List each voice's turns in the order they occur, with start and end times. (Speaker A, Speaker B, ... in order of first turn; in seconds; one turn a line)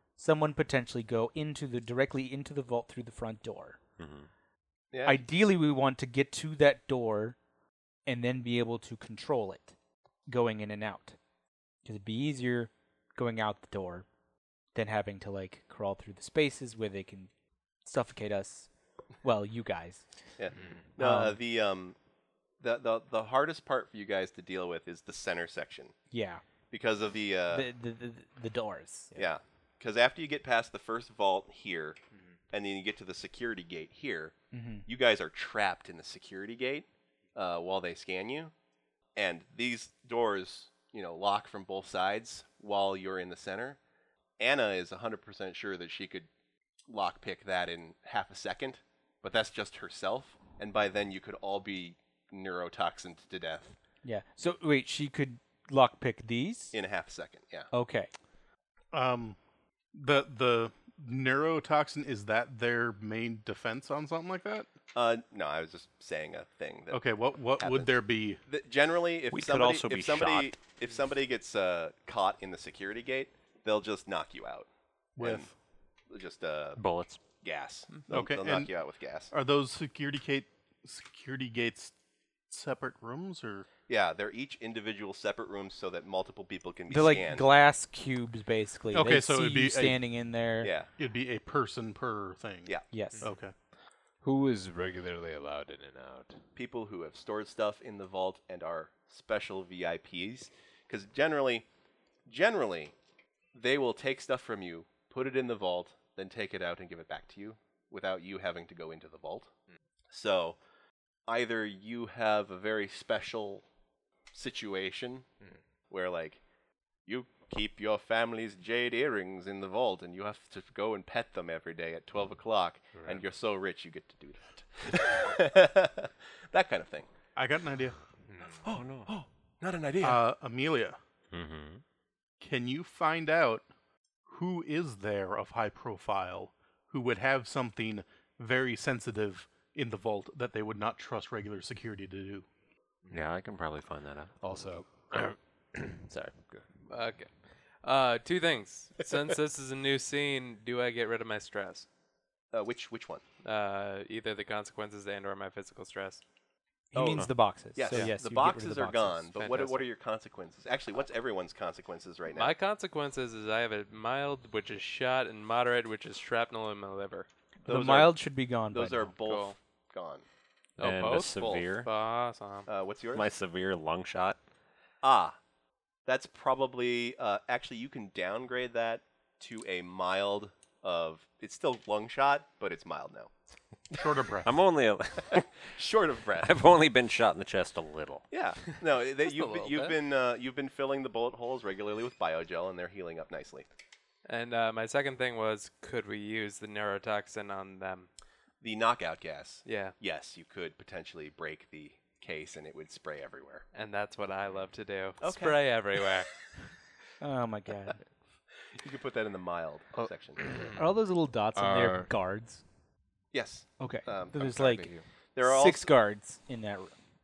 Speaker A: 0.2-3.8
Speaker B: 4.0-4.3
Speaker C: 4.9-5.2
Speaker A: 5.1-7.4
Speaker A: 8.1-11.2
Speaker A: 11.8-14.1
Speaker A: 14.7-17.3
Speaker A: 17.9-18.7
Speaker A: 19.2-20.1
Speaker C: 20.4-21.9
Speaker D: 20.6-20.8
Speaker A: 21.0-21.4
Speaker C: 22.6-26.0
Speaker A: 26.1-26.4
Speaker C: 26.7-27.7
Speaker A: 27.5-29.2
Speaker C: 29.1-32.0
Speaker C: 32.5-38.5
Speaker A: 34.5-34.9
Speaker C: 39.1-43.8
Speaker C: 44.4-46.3
Speaker C: 46.9-53.8
Speaker A: 54.0-56.7
Speaker C: 56.7-57.7
Speaker A: 57.7-58.1
Speaker E: 58.9-59.4
Speaker E: 59.9-64.7
Speaker C: 64.9-67.9
Speaker E: 66.9-68.4
Speaker C: 68.5-75.5
Speaker B: 69.3-70.6
Speaker E: 75.2-75.5
Speaker C: 76.1-76.8
Speaker B: 76.8-77.2
Speaker C: 77.4-79.3
Speaker E: 78.1-78.7
Speaker E: 79.3-81.9
Speaker E: 82.5-83.7
Speaker C: 83.9-87.5
Speaker A: 86.9-90.7
Speaker E: 88.9-90.2
Speaker C: 90.6-90.9
Speaker E: 91.0-93.5
Speaker A: 92.9-93.2
Speaker D: 94.2-96.4
Speaker C: 96.5-101.7
Speaker C: 102.3-102.9
Speaker C: 103.5-109.5
Speaker C: 110.1-110.6
Speaker C: 111.3-113.7
Speaker C: 114.3-115.3
Speaker C: 115.9-116.4
Speaker C: 117.0-127.1
Speaker D: 122.9-123.2
Speaker E: 127.4-128.0
Speaker D: 128.2-128.6
Speaker C: 128.6-130.2
Speaker B: 128.7-129.1
Speaker E: 130.0-131.0
Speaker B: 131.3-131.8
Speaker E: 132.4-133.7
Speaker E: 134.2-142.4
Speaker B: 143.1-144.3
Speaker D: 144.4-146.7
Speaker F: 146.9-147.3
Speaker F: 147.8-151.9
Speaker C: 152.5-153.2
Speaker F: 153.4-156.2
Speaker A: 156.9-159.3
Speaker C: 156.9-162.5
Speaker F: 159.4-159.8
Speaker F: 162.3-167.3
Speaker A: 167.6-169.1
Speaker C: 167.7-168.2
Speaker C: 168.7-170.2
Speaker F: 169.2-169.6
Speaker B: 170.8-171.9
Speaker F: 170.8-172.7
Speaker C: 171.2-171.6
Speaker C: 172.7-173.3
Speaker B: 173.1-174.4
Speaker C: 175.0-175.4
Speaker C: 176.1-183.3
Speaker E: 183.9-184.5
Speaker B: 184.4-185.7
Speaker C: 185.3-186.6
Speaker B: 186.4-188.2
Speaker C: 188.3-193.7
Speaker F: 189.2-190.0
Speaker F: 194.2-198.1
Speaker C: 198.6-203.6
Speaker F: 199.6-199.9
Speaker F: 203.7-206.6
Speaker C: 205.2-205.6
Speaker A: 207.2-208.0
Speaker C: 208.7-210.7
Speaker D: 210.4-210.9
Speaker A: 210.7-212.6
Speaker D: 211.6-212.1
Speaker C: 213.3-214.7
Speaker A: 213.8-216.9
Speaker D: 214.4-215.1
Speaker C: 215.3-215.9